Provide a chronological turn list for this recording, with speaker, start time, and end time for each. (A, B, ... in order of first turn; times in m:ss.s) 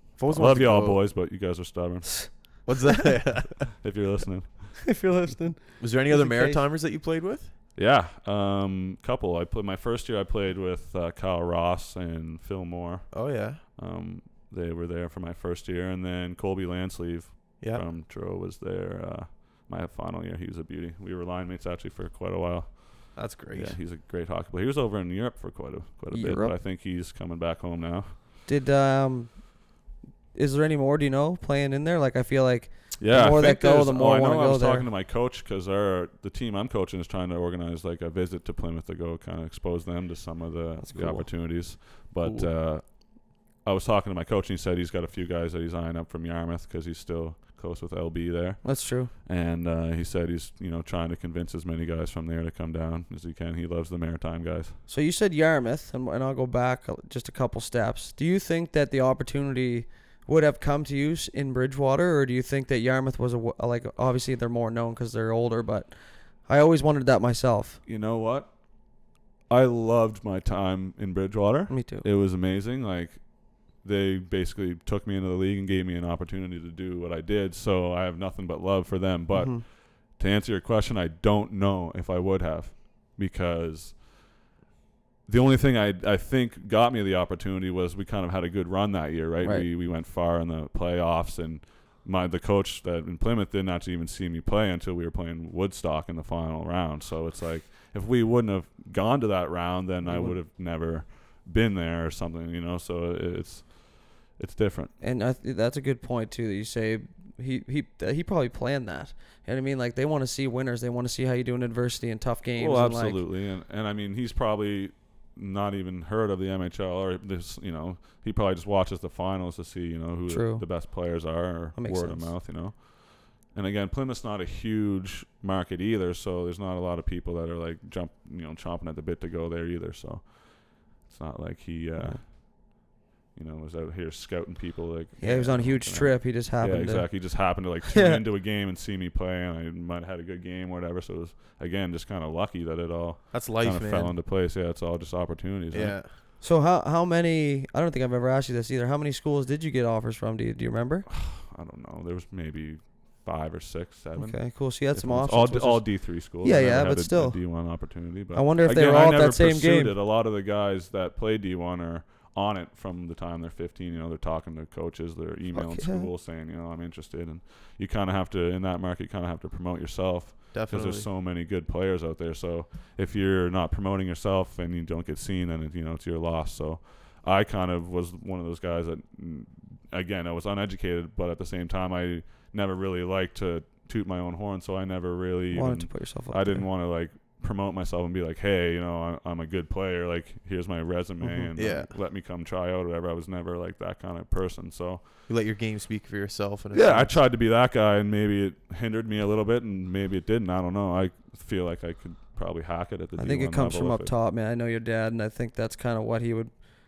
0:00.2-0:01.1 A
0:00.3-0:02.7 B
0:02.7-0:03.7 A
0:03.6-0:04.9 B
0:04.8-0:06.6 C
0:05.8-0:07.5 A
0:07.8-0:28.2 B
0:13.1-0:13.6 A
0:17.6-0:17.8 A
0:23.2-0:23.8 A
0:26.1-0:26.6 C
0:28.5-0:29.6 C
0:30.3-0:34.9 C
0:33.0-0:54.8 B
0:40.8-0:41.3 C
0:48.6-0:49.1 C
0:54.9-1:05.9 C
1:06.4-1:07.8 C
1:07.9-1:08.6 B
1:09.5-1:24.0 B
1:11.7-1:12.0 C
1:19.3-1:19.6 C
1:25.3-1:44.9 B
1:29.4-1:29.7 C
1:40.0-1:40.4 C
1:45.0-1:53.2 C
1:52.6-2:26.0 B
2:00.3-2:00.7 C
2:01.8-2:02.3 C
2:15.2-2:18.2 C
2:23.3-2:24.2 A
2:25.7-2:26.1 A
2:26.4-2:31.1 C
2:31.1-3:15.0 B
2:34.2-2:40.0 C
2:45.5-2:46.1 C
2:50.5-2:51.1 A
3:05.5-3:06.7 C
3:11.2-3:11.5 C
3:11.6-3:11.9 A
3:15.3-3:17.2 A
3:16.7-3:24.1 B
3:23.2-3:26.5 C